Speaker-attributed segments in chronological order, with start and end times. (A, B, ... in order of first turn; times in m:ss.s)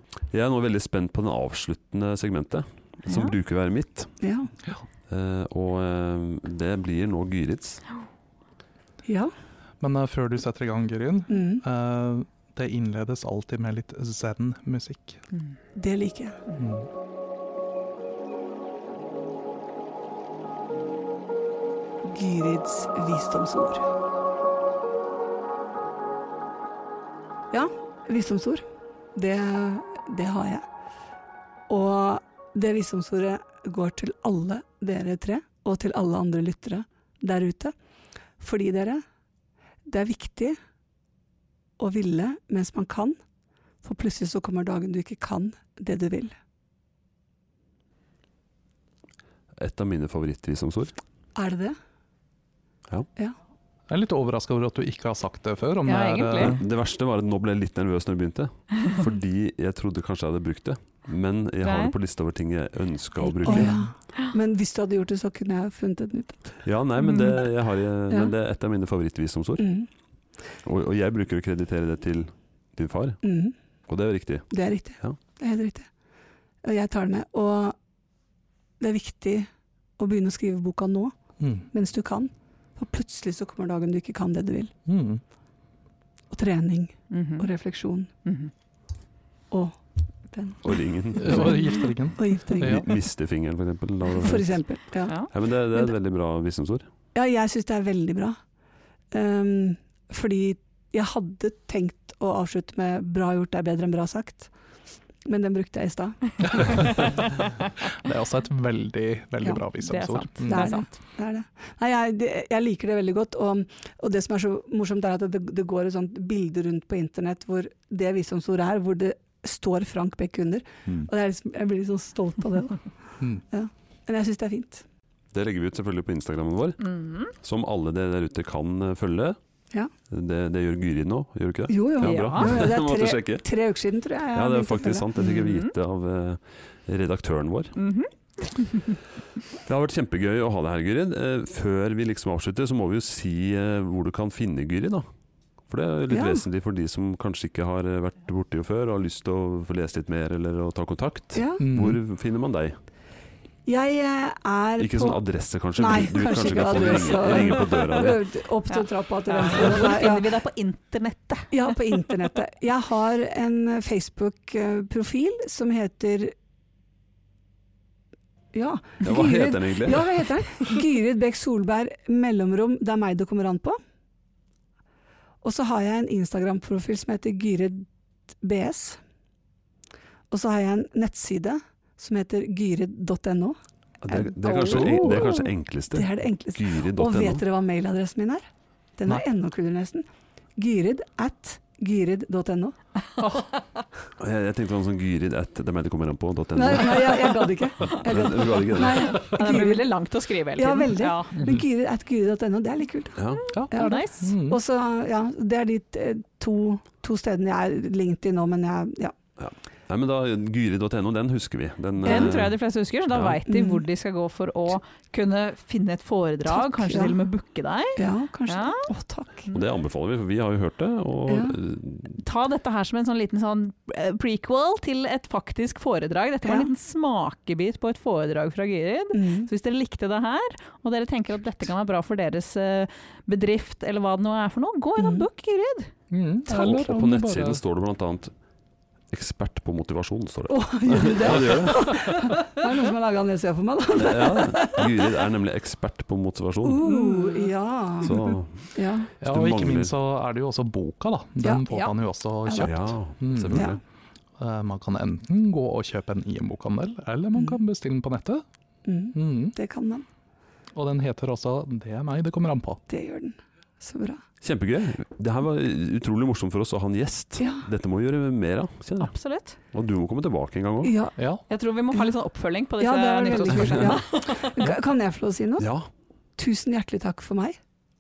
0:00.3-0:04.1 A
0:03.1-0:03.3 B
0:04.2-0:04.5 C
0:05.1-0:07.8 A
0:09.0-0:09.3 C
0:09.8-0:15.2 D
0:11.3-0:11.6 C
0:15.7-0:16.4 C
0:16.5-0:16.9 D
0:22.0-0:23.8 C
0:27.5-0:28.6 C
0:29.1-0:30.6 C
0:31.7-0:37.7 C
0:38.4-0:39.0 C
0:39.8-0:40.6 C
0:41.8-0:43.2 C
0:43.8-0:46.3 C
0:49.6-0:50.9 A
0:51.4-0:51.8 C
0:53.9-0:56.6 D
0:55.8-0:56.6 B
0:56.4-1:03.8 A
1:01.6-1:01.9 B
1:03.2-1:06.5 C
1:06.6-1:09.7 A
1:09.6-1:09.9 C
1:10.6-1:13.2 A
1:13.2-1:13.5 C
1:13.9-1:15.2 A
1:14.5-1:15.9 C
1:16.6-1:17.8 C
1:18.8-1:21.2 C
1:21.4-1:21.6 D
1:21.7-1:24.7 C
1:24.8-1:25.2 D
1:26.3-1:28.1 C
1:27.1-1:27.5 B
1:28.2-1:28.5 B
1:29.5-1:32.9 C
1:30.6-1:31.7 A
1:31.2-1:32.9 D
1:32.6-1:34.6 A
1:34.1-1:35.2 C
1:35.3-1:36.8 A
1:37.1-1:38.4 C
1:39.1-1:44.5 C
1:45.2-1:46.8 C
1:46.4-1:50.8 D
1:49.8-1:50.9 B
1:50.4-2:02.8 C
2:03.5-2:04.8 C
2:05.3-2:09.4 A
2:06.8-2:07.3 B
2:10.1-2:13.4 A
2:11.7-2:15.1 C
2:12.0-2:12.5 B
2:14.3-2:17.8 A
2:15.2-2:15.7 B
2:17.8-2:18.9 B
2:19.6-2:25.1 A
2:25.7-2:32.8 A
2:26.1-2:26.4 C
2:31.3-2:31.6 C
2:31.6-2:32.0 D
2:33.6-2:35.2 C
2:34.8-2:38.2 A
2:35.8-2:40.3 C
2:38.7-2:41.6 B
2:41.5-2:46.3 C
2:48.5-2:53.8 C
2:49.0-2:50.2 A
2:55.4-2:57.9 C
2:58.4-2:59.0 C
3:00.3-3:03.6 C
3:04.0-3:07.4 A
3:04.1-3:08.4 C
3:09.0-3:10.0 C
3:10.6-3:12.8 C
3:14.2-3:19.2 A
3:16.5-3:19.9 C
3:18.8-3:21.4 B
3:20.6-3:29.1 C
3:21.4-3:21.6 D
3:23.2-3:23.5 A
3:23.5-3:24.6 D
3:23.7-3:24.3 B
3:29.4-3:32.6 A
3:32.0-3:38.9 B
3:32.0-3:32.3 C
3:33.1-3:33.4 A
3:33.4-3:33.8 C
3:36.5-3:37.2 C
3:38.0-3:39.5 C
3:39.5-3:42.2 A
3:41.3-3:41.6 C
3:42.2-3:55.9 B
3:46.4-3:46.7 C
3:49.1-3:49.5 C
3:55.0-3:55.2 C
3:56.1-3:57.6 D
3:56.5-3:58.3 A
3:59.1-4:02.3 A
4:00.5-4:04.9 C
4:03.9-4:06.8 A
4:06.6-4:08.2 C
4:06.8-4:07.2 B
4:08.0-4:08.7 A
4:08.7-4:09.1 C
4:09.2-4:09.9 A
4:09.2-4:13.7 D
4:11.7-4:11.9 B
4:12.4-4:12.7 C
4:12.6-4:13.8 A
4:14.4-4:18.4 D
4:17.3-4:17.6 C
4:18.8-4:20.0 C
4:19.1-4:19.5 D
4:20.7-4:22.8 D
4:22.9-4:24.2 C
4:24.4-4:29.1 A
4:27.4-4:27.6 C
4:29.0-4:29.6 B
4:29.7-4:31.0 A
4:30.8-4:31.2 C
4:31.2-4:31.4 D
4:31.5-4:34.5 B
4:32.8-4:35.7 C
4:35.6-4:35.9 A
4:36.4-4:37.6 C